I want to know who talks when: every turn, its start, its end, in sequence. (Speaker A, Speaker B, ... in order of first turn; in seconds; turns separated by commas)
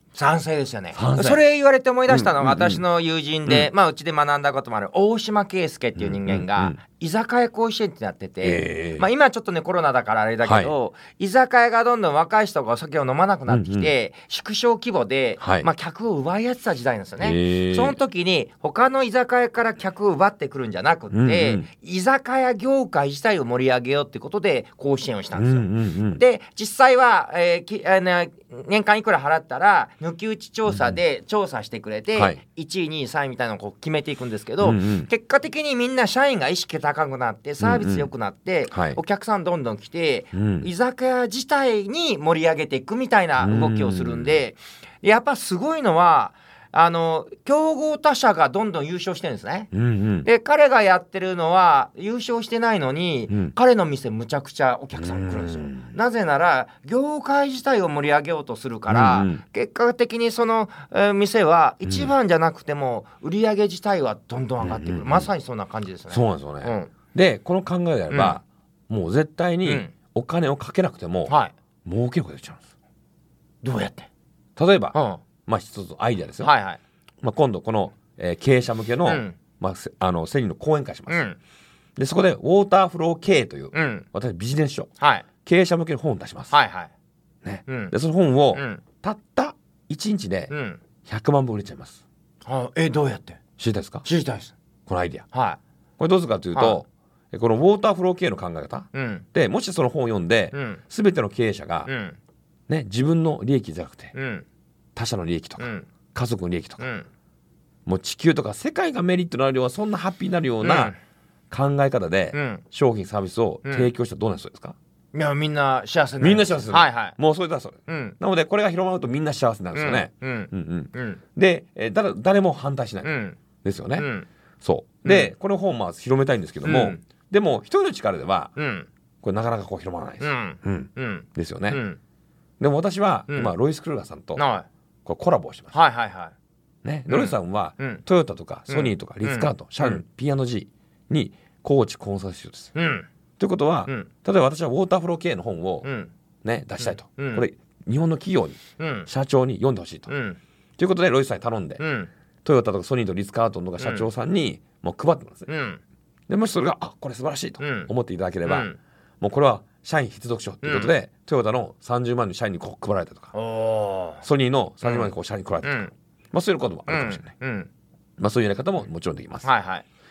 Speaker A: 0.1-49.7, Speaker B: 0.9-1.4, Speaker B: 2.1-2.8, Speaker B: 6.0-6.8, Speaker B: 8.4-9.1, Speaker B: 10.4-10.7, Speaker B: 13.5-13.9, Speaker B: 15.4-15.7, Speaker B: 17.2-18.0, Speaker B: 21.1-21.6, Speaker B: 25.3-26.2, Speaker B: 30.7-31.0, Speaker B: 32.1-32.4, Speaker B: 34.6-35.1, Speaker B: 37.6-38.1, Speaker B: 38.7-39.0, Speaker B: 40.3-40.7, Speaker B: 43.4-44.4, Speaker B: 49.7-50.3, Speaker A: 50.2-66.9, Speaker B: 55.0-55.9, Speaker B: 58.9-59.4, Speaker B: 61.8-62.1, Speaker B: 64.6-65.3, Speaker B: 66.1-71.3, Speaker A: 68.1-68.4, Speaker A: 69.6-69.9, Speaker A: 71.3-71.5, Speaker B: 71.8-72.6, Speaker A: 73.6-74.1, Speaker B: 74.5-76.5, Speaker A: 74.9-75.2, Speaker A: 76.4-76.8, Speaker B: 77.2-81.2, Speaker A: 79.0-79.3, Speaker A: 81.1-81.4, Speaker B: 82.0-84.9, Speaker A: 83.7-84.0, Speaker A: 85.0-85.2, Speaker B: 85.4-86.5, Speaker A: 86.5-86.9, Speaker B: 87.4-90.5, Speaker A: 87.7-87.9, Speaker A: 88.5-88.8, Speaker A: 90.5-90.8, Speaker B: 91.0-92.0, Speaker A: 92.4-93.4, Speaker B: 93.6-94.0, Speaker A: 94.0-94.5, Speaker B: 94.9-95.2, Speaker A: 95.3-95.6, Speaker B: 96.0-101.9, Speaker A: 96.5-96.8, Speaker A: 98.9-99.2, Speaker A: 100.5-100.8, Speaker A: 101.8-102.2, Speaker B: 102.7-104.1, Speaker A: 104.1-104.4, Speaker B: 105.0-106.8, Speaker A: 105.6-105.9, Speaker A: 106.8-107.1, Speaker B: 107.8-110.9, Speaker A: 110.6-111.0, Speaker B: 111.5-114.8, Speaker A: 112.3-112.6, Speaker A: 113.6-113.9, Speaker A: 115.1-117.2, Speaker B: 116.2-124.1, Speaker A: 117.9-118.2, Speaker A: 119.7-121.2, Speaker A: 123.0-123.4, Speaker A: 124.0-124.3, Speaker B: 124.6-128.5, Speaker A: 125.0-125.3, Speaker A: 126.6-127.0, Speaker A: 128.6-128.9, Speaker B: 129.2-131.8, Speaker A: 130.2-132.0, Speaker B: 132.6-134.4, Speaker A: 133.3-133.5, Speaker A: 134.3-134.7, Speaker B: 135.1-135.7, Speaker A: 135.7-136.3, Speaker B: 136.8-142.7, Speaker A: 137.1-138.0, Speaker A: 138.7-140.0, Speaker A: 142.7-143.1, Speaker B: 143.4-145.9, Speaker A: 145.8-146.1, Speaker B: 146.4-150.1, Speaker A: 146.8-147.4, Speaker A: 148.8-149.1, Speaker A: 150.1-150.4, Speaker B: 150.8-151.8, Speaker A: 151.8-152.1, Speaker B: 152.4-155.5, Speaker A: 153.8-154.1, Speaker A: 155.5-155.8, Speaker B: 156.3-158.7, Speaker A: 157.6-157.9, Speaker A: 158.4-158.8, Speaker B: 159.2-163.3, Speaker A: 160.6-160.9, Speaker A: 163.3-164.2, Speaker B: 164.2-167.3, Speaker A: 164.8-165.1, Speaker A: 165.6-165.9, Speaker A: 166.9-167.7, Speaker B: 168.2-169.5, Speaker A: 169.4-169.8